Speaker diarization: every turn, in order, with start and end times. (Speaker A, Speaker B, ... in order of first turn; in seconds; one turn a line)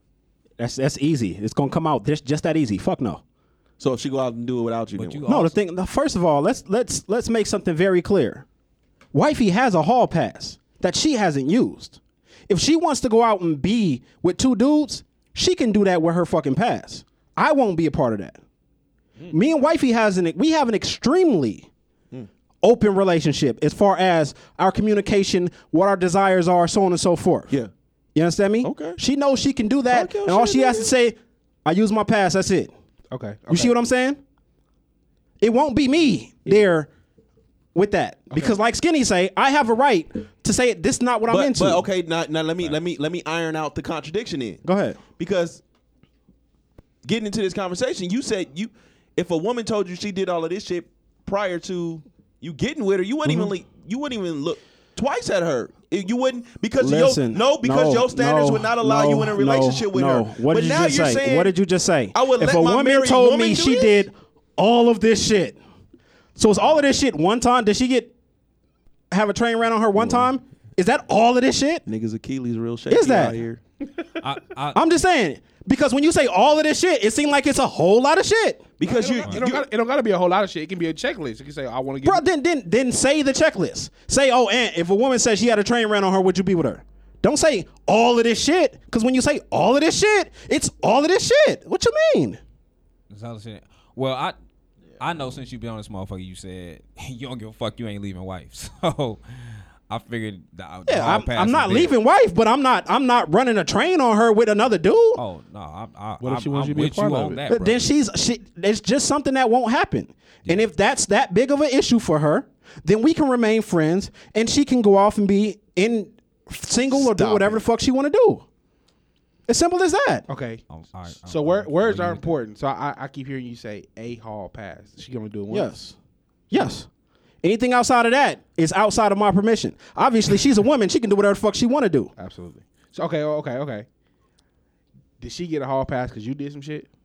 Speaker A: 0.6-3.2
Speaker B: 3.8-5.2
Speaker C: 4.9-5.5
Speaker A: 5.2-8.4
Speaker A: 9.1-18.4
Speaker A: 19.3-21.7
Speaker A: 22.6-27.5
Speaker A: 28.1-32.7
Speaker B: 28.6-29.0
Speaker B: 29.9-30.9
Speaker D: 33.1-33.7
Speaker A: 33.5-34.2
Speaker A: 35.4-36.9
Speaker A: 37.7-41.8
Speaker B: 41.3-44.6
Speaker A: 44.6-45.0
Speaker B: 45.2-45.6
Speaker B: 47.0-61.5
Speaker A: 53.2-53.5
Speaker A: 56.8-65.6
Speaker B: 62.1-64.1
Speaker A: 66.4-68.1
Speaker A: 69.1-71.8
Speaker B: 70.0-70.3
Speaker B: 71.8-73.6
Speaker A: 72.9-73.4
Speaker C: 74.2-74.8
Speaker A: 74.7-78.7
Speaker B: 78.8-79.7
Speaker D: 78.8-82.2
Speaker A: 82.0-92.4
Speaker C: 93.1-94.3
Speaker B: 94.9-95.3
Speaker C: 95.0-101.9
Speaker A: 100.8-105.2
Speaker C: 105.2-107.8
Speaker D: 106.2-107.4
Speaker A: 107.5-118.5
Speaker B: 116.9-117.6
Speaker A: 119.5-120.2
Speaker D: 120.3-120.6
Speaker C: 120.7-122.4
Speaker D: 121.2-125.7
Speaker A: 125.5-126.0
Speaker A: 126.5-126.9
Speaker A: 127.4-132.1
Speaker D: 132.2-133.9
Speaker D: 135.2-136.9